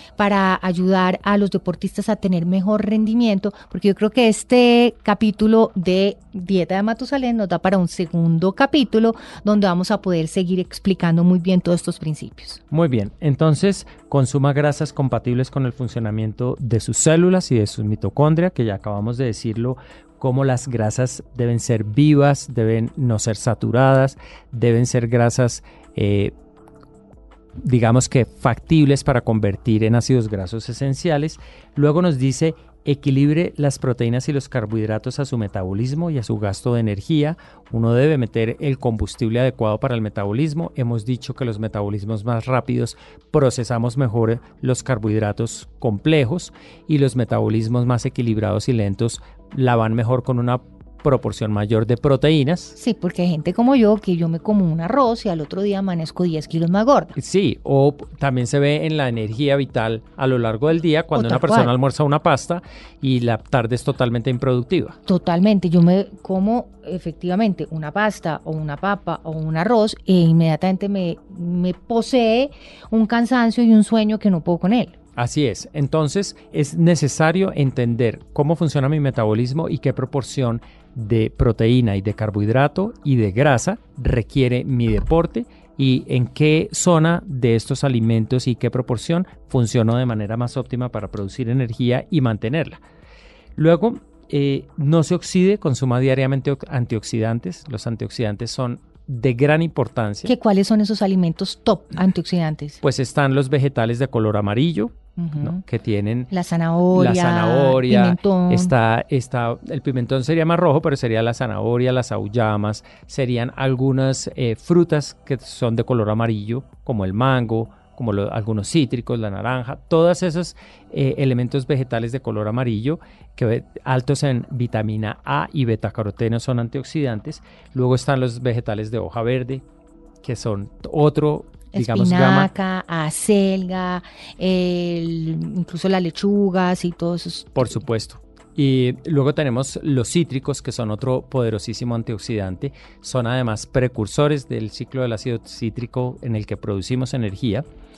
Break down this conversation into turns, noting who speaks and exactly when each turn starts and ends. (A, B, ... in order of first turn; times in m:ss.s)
0:00.2-0:12.6 A
0:12.7-0:26.3 B
0:27.6-0:52.7 B
0:52.8-0:57.1 A
0:57.2-1:05.0 B
1:01.1-1:01.7 A
1:05.0-1:14.9 A
1:15.2-1:32.8 B
1:33.6-1:40.3 B
1:40.2-1:42.8 A
1:42.8-1:46.3 B
1:45.2-1:45.6 A
1:46.3-1:48.7 A
1:46.9-2:09.6 B
2:10.2-2:12.5 B
2:11.7-2:17.8 A
2:17.6-2:27.6 B